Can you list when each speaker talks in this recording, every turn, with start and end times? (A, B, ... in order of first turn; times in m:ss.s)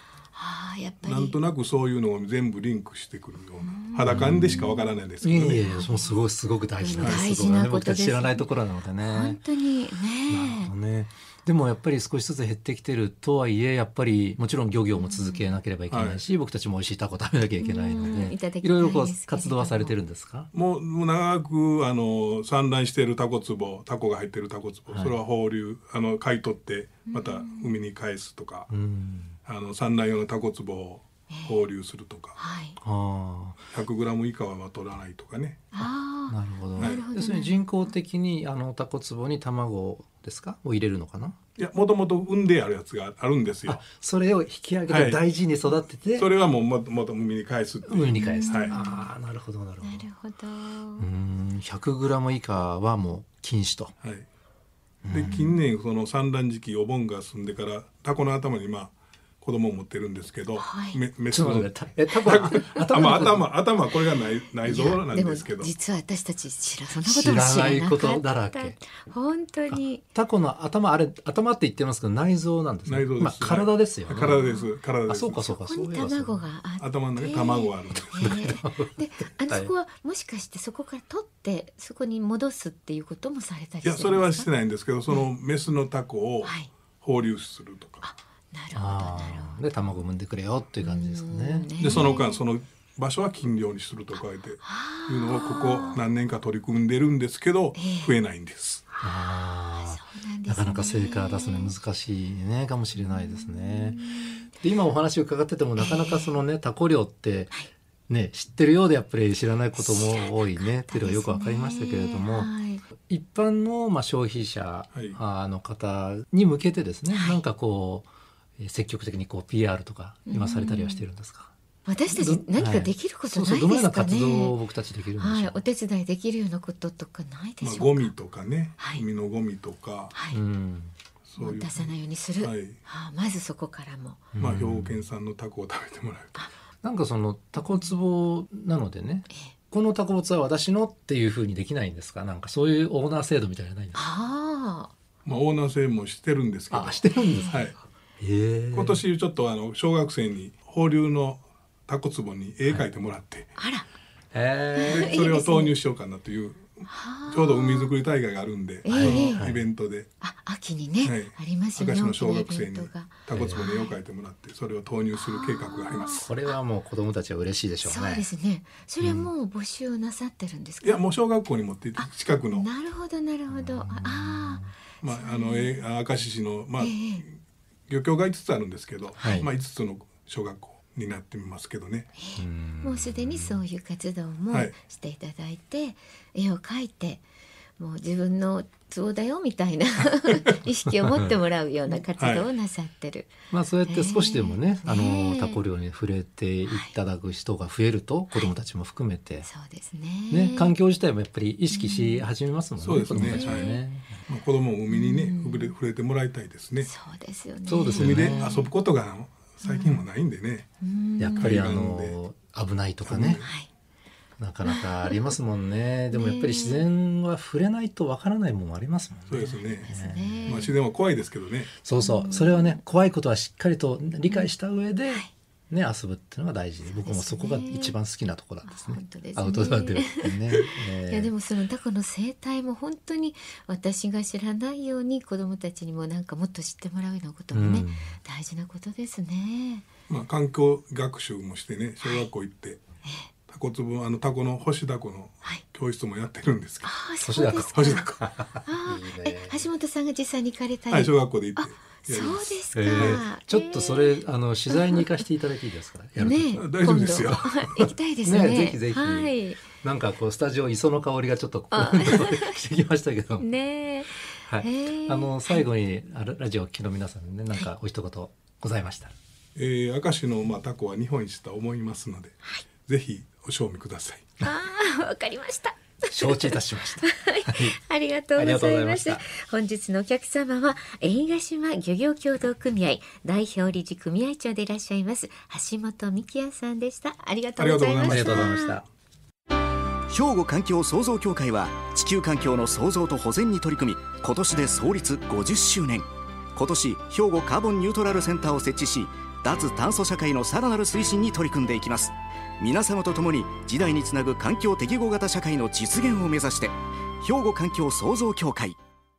0:00.3-0:01.4 A
0:01.0-0:05.7 B
0:03.6-0:04.9 A
0:04.1-0:04.7 C
0:05.2-0:09.4 C
0:05.6-0:06.1 A
0:06.8-0:08.5 A
0:07.0-0:07.2 B
0:09.0-0:10.7 A
0:10.3-0:20.5 C
0:15.0-0:15.5 A
0:15.9-0:16.2 B
0:17.6-0:20.0 A
0:20.5-0:28.7 B
0:24.9-0:25.2 C
0:27.1-0:27.7 A
0:28.7-0:29.4 C
0:29.4-0:32.4 B
0:31.3-0:31.6 A
0:32.4-0:32.8 A
0:32.8-0:33.7 C
0:33.7-0:35.7 B
0:35.7-0:37.6 A
0:36.3-0:41.4 C
0:36.8-0:37.0 B
0:41.6-0:43.8 B
0:43.7-0:46.3 C
0:44.9-0:45.2 B
0:46.2-0:48.8 B
0:47.9-0:50.1 C
0:48.2-0:49.1 A
0:49.8-0:51.1 A
0:51.0-0:53.9 C
0:55.0-0:55.6 C
0:55.1-1:05.7 B
1:00.6-1:01.0 A
1:01.3-1:03.5 C
1:04.6-1:10.0 A
1:07.0-1:08.8 C
1:09.7-1:14.4 C
1:12.9-1:15.5 B
1:14.2-1:14.7 A
1:15.1-1:16.4 C
1:15.6-1:24.5 A
1:16.8-1:18.5 B
1:18.2-1:19.7 C
1:23.8-1:28.0 B
1:26.4-1:26.7 A
1:28.0-1:29.7 A
1:28.7-1:32.2 C
1:30.8-1:32.4 A
1:31.8-1:38.8 B
1:34.6-1:36.0 A
1:37.8-1:38.1 A
1:39.0-1:47.5 C
1:39.8-1:41.7 A
1:43.0-1:44.5 A
1:45.8-1:46.4 A
1:48.1-2:01.5 C
1:49.8-1:52.8 A
1:57.1-1:57.4 A
2:00.3-2:01.0 A
2:01.9-2:04.6 A
2:02.1-2:05.6 C
2:05.2-2:08.1 A
2:07.6-2:10.1 B
2:08.8-2:09.0 A
2:10.1-2:10.4 A
2:10.3-2:10.9 C
2:11.3-2:12.8 B
2:11.4-2:14.3 A
2:14.3-2:15.0 C
2:14.4-2:16.4 B
2:16.8-2:24.0 C
2:23.9-2:24.9 A
2:25.2-2:27.8 B
2:26.7-2:27.7 C
2:27.2-2:27.6 A
2:28.2-2:29.0 C
2:28.7-2:33.5 B
2:33.6-2:33.8 A
2:34.3-2:35.2 C
2:34.8-2:35.7 A
2:34.8-2:40.1 B
2:36.9-2:37.9 A
2:38.8-2:39.4 A
2:38.9-2:39.7 C
2:40.2-2:44.0 A
2:41.0-2:46.2 B
2:43.3-2:43.6 C
2:45.2-2:46.5 A
2:46.0-2:48.3 C
2:47.8-2:51.0 A
2:49.0-2:49.3 C
2:50.8-2:52.7 B
2:52.0-2:55.8 A
2:53.5-2:54.7 C
2:55.0-2:57.4 B
2:56.8-2:57.2 A
2:57.9-3:02.1 B
2:59.2-2:59.5 C
3:02.2-3:07.2 A
3:02.4-3:03.6 C
3:07.8-3:13.3 A
3:11.0-3:11.3 C
3:12.2-3:12.5 B
3:13.5-3:19.5 C
3:13.9-3:15.6 A
3:16.7-3:16.9 A
3:19.4-3:20.8 A
3:20.3-3:24.2 C
3:21.7-3:22.2 A
3:22.8-3:26.9 B
3:23.0-3:23.8 A
3:24.9-3:25.7 A
3:26.8-3:28.7 A
3:27.7-3:28.6 C
3:27.9-3:30.7 B
3:29.6-3:30.0 A
3:30.8-3:31.6 A
3:31.2-3:33.4 C
3:31.4-3:32.2 B
3:33.0-3:33.5 B
3:33.2-3:33.7 A
3:34.4-3:40.7 C
3:34.7-3:35.3 A
3:36.1-3:36.9 A
3:39.3-3:39.9 B
3:39.8-3:40.7 A
3:40.5-3:41.7 B
3:41.8-3:51.3 C
3:42.0-3:42.8 A
3:46.9-3:48.0 A
3:48.7-3:59.9 A
3:57.5-3:58.2 C
4:00.1-4:02.8 B
4:02.0-4:02.3 A
4:03.5-4:07.0 B
4:06.8-4:08.1 A
4:07.2-4:09.7 C
4:07.7-4:08.2 B
4:08.6-4:15.0 A
4:10.9-4:13.2 B
4:12.8-4:17.4 C
4:16.2-4:19.6 A
4:16.6-4:17.9 B
4:18.2-4:23.5 C
4:21.7-4:22.6 A
4:23.4-4:25.6 A
4:24.3-4:29.2 C
4:29.6-4:34.3 B
4:34.4-4:48.8 A
4:36.1-4:37.8 C
4:38.4-4:39.3 C
4:47.6-4:48.6 B
4:48.0-4:48.8 C
4:50.1-5:08.8 D